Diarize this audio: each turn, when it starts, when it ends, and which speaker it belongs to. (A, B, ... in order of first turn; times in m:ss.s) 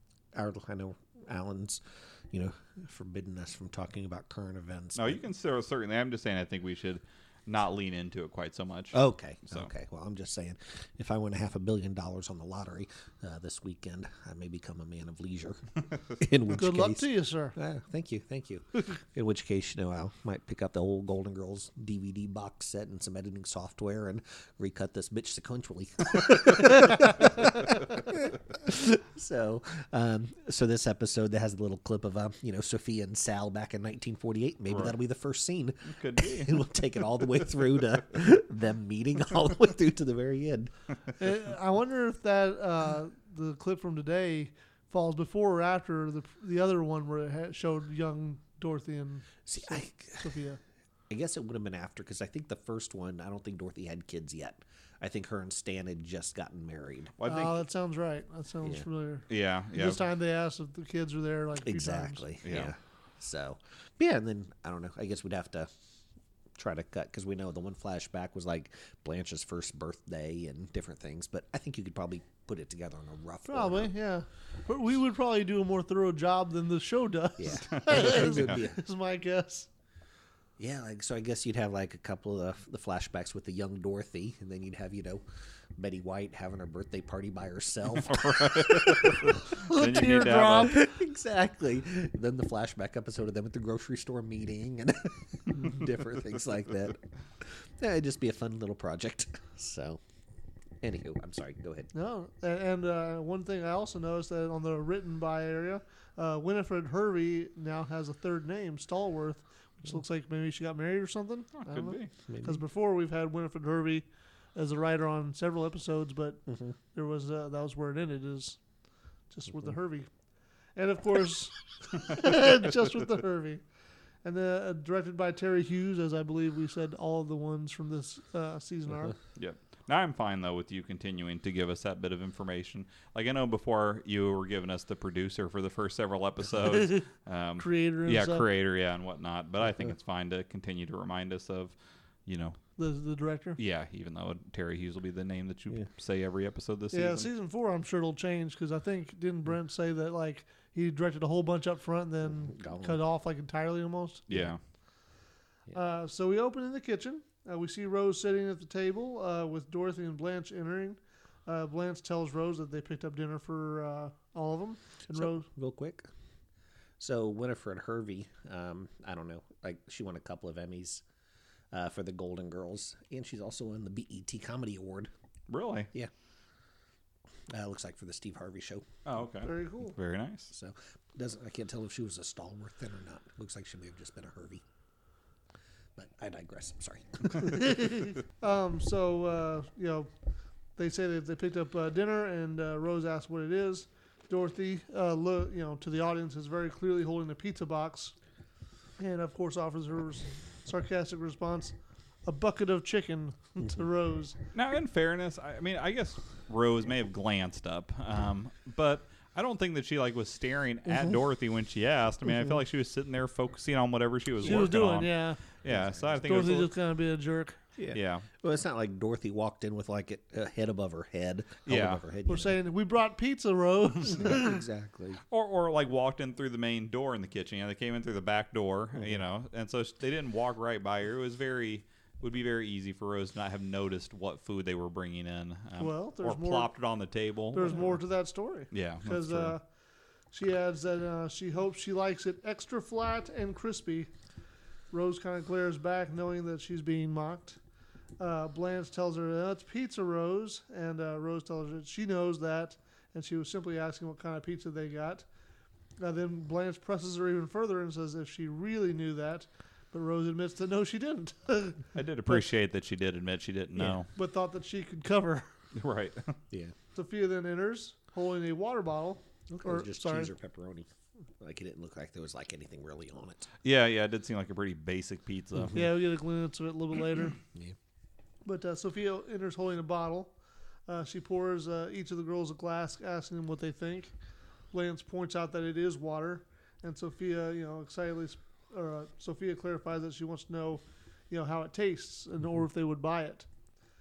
0:00.4-0:05.2 A
0:05.0-0:09.7 B
0:08.9-0:40.7 A
0:16.6-0:17.6 C
0:34.7-0:35.0 B
0:35.9-0:36.7 B
0:41.2-0:50.6 C
0:49.5-0:50.2 A
0:51.1-0:57.4 A
0:57.2-0:57.6 B
0:57.2-1:02.2 C
0:59.3-1:00.0 B
1:01.6-1:05.7 A
1:02.4-1:02.7 B
1:06.6-1:13.9 A
1:13.5-1:19.7 C
1:17.4-1:18.8 A
1:17.5-1:18.6 B
1:20.6-1:25.2 A
1:25.8-1:29.4 A
1:28.0-1:30.8 B
1:29.6-1:30.9 C
1:30.4-1:40.0 A
1:40.8-1:41.9 A
1:41.9-1:58.6 C
1:51.6-1:52.1 B
1:52.3-1:52.6 A
1:59.3-2:00.1 C
2:00.8-2:03.6 C
2:04.2-2:09.2 C
2:09.4-2:22.6 B
2:16.7-2:17.0 C
2:17.6-2:18.4 C
2:22.8-2:23.6 C
2:23.6-2:27.3 B
2:26.9-2:34.3 C
2:32.5-2:33.0 A
2:34.3-2:34.6 B
2:35.7-2:45.5 C
2:45.1-2:46.1 A
2:47.0-2:51.0 A
2:51.7-2:55.1 A
2:55.5-2:55.9 B
2:57.5-2:58.9 A
2:59.0-3:00.5 B
2:59.4-3:00.0 C
3:00.5-3:04.6 A
3:06.0-3:08.0 A
3:07.4-3:10.1 C
3:10.8-3:18.2 C
3:19.0-3:24.4 C
3:24.5-3:36.7 B
3:34.4-3:35.4 C
3:35.7-3:36.2 A
3:36.2-3:37.6 C
3:37.8-3:42.6 A
3:37.9-3:38.3 B
3:41.7-3:42.0 B
3:42.3-3:44.6 C
3:44.1-3:45.2 A
3:45.3-3:57.9 B
3:55.8-3:56.7 C
3:57.5-3:59.6 C
3:58.7-3:59.5 B
4:00.3-4:04.1 C
4:04.9-4:07.6 C
4:08.2-4:15.3 C
4:16.0-4:22.4 C
4:22.0-4:24.1 B
4:24.1-4:25.5 C
4:25.8-4:26.4 B
4:27.0-4:30.3 C
4:29.5-4:30.9 A
4:31.4-4:33.5 A
4:33.6-4:35.8 B
4:35.6-4:35.8 A
4:35.7-4:37.4 C
4:38.4-4:40.3 C
4:40.9-4:44.1 C
4:44.7-4:53.5 C